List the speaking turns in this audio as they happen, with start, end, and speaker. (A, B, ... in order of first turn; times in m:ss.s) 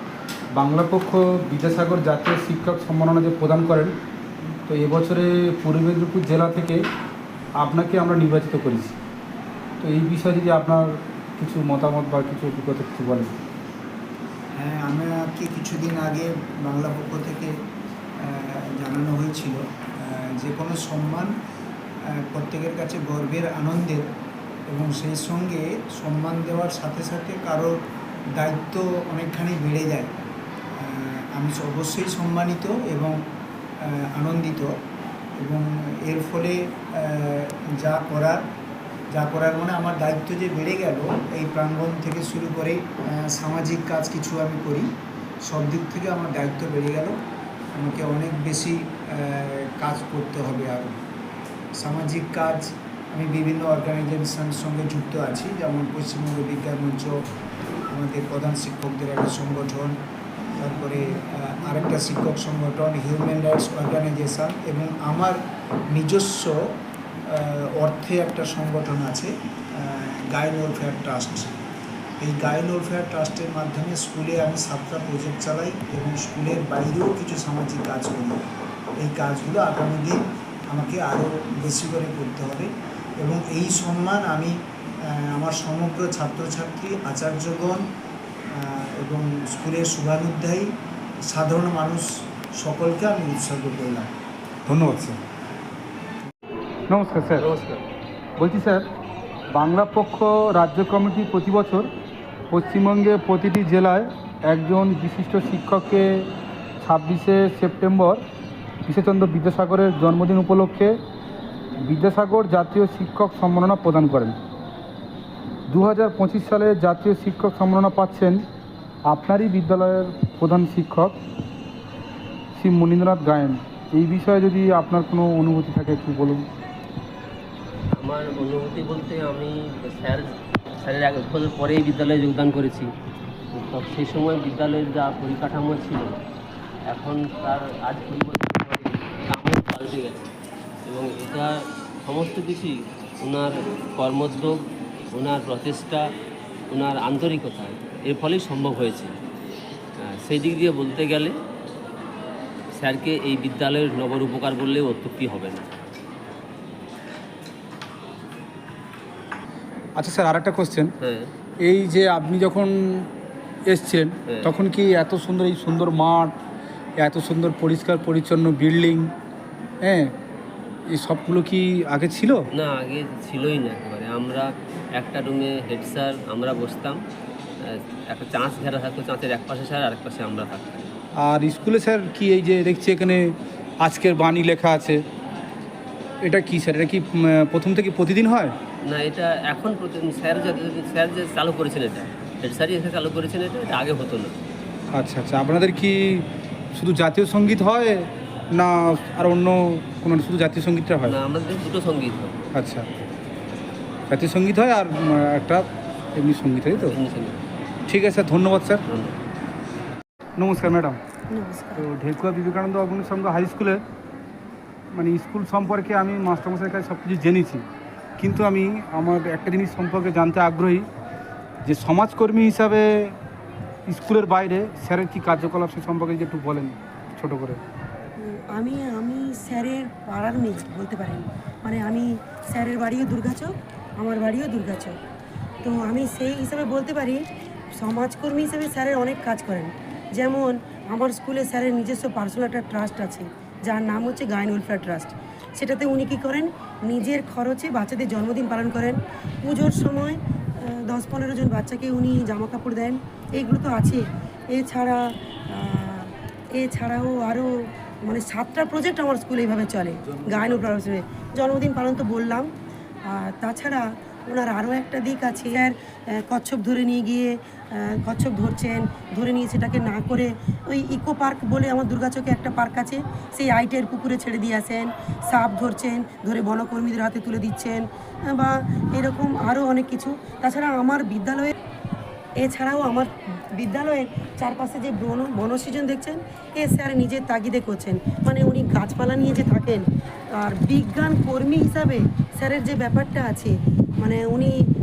0:00.5-0:04.0 A
0:04.7-0:06.8 A
0:07.6-0:09.0 A
0:09.8-0:13.4 A
0:14.5-0:17.6 B
0:18.2-0:21.3 B
0:22.0-0:24.1 B
0:24.7-0:27.8 B
0:28.3-0:30.2 B
0:30.8-0:33.2 B
0:33.8-0:34.8 B
0:35.4-0:38.5 B
0:39.1-0:44.9 B
0:45.4-0:47.2 B
0:47.8-0:51.0 B
0:51.8-0:57.2 B
0:57.9-1:00.0 B
1:00.6-1:05.4 B
1:05.9-1:06.8 B
1:07.3-1:11.5 B
1:12.2-1:18.5 B
1:19.0-1:27.9 B
1:28.5-1:34.1 B
1:34.7-1:35.2 A
1:36.9-1:37.5 A
1:37.4-1:37.8 C
1:38.4-1:38.9 A
1:39.5-1:41.9 A
1:42.5-1:46.3 A
1:46.8-1:48.2 A
1:48.9-1:51.0 A
1:51.8-1:54.4 A
1:55.7-1:58.4 A
1:59.1-2:01.2 A
2:02.5-2:06.5 A
2:07.9-2:12.9 C
2:13.5-2:16.2 C
2:16.9-2:20.3 C
2:20.9-2:24.6 C
2:25.1-2:26.0 C
2:26.7-2:29.2 C
2:30.0-2:31.4 C
2:32.7-2:35.9 C
2:40.0-2:40.9 A
2:41.0-2:41.3 C
2:41.6-2:43.1 A
2:43.7-2:46.4 A
2:47.0-2:49.1 A
2:49.8-2:50.2 A
2:50.9-2:52.5 A
2:52.5-2:57.0 C
2:57.6-3:00.9 C
3:01.2-3:05.0 A
3:06.2-3:08.6 A
3:08.8-3:14.4 C
3:14.9-3:21.2 A
3:21.0-3:22.4 C
3:22.5-3:22.9 A
3:24.1-3:27.0 A
3:26.8-3:27.4 C
3:27.9-3:28.8 A
3:28.9-3:29.2 C
3:30.4-3:31.0 A
3:31.3-3:31.8 D
3:31.8-3:33.8 A
3:34.9-3:37.7 A
3:38.2-3:40.9 A
3:41.6-3:43.2 A
3:43.9-3:47.6 A
3:48.2-3:55.0 D
3:55.6-3:57.2 D
3:57.8-4:22.5 D
4:23.1-4:41.5 D
4:42.4-4:54.5 D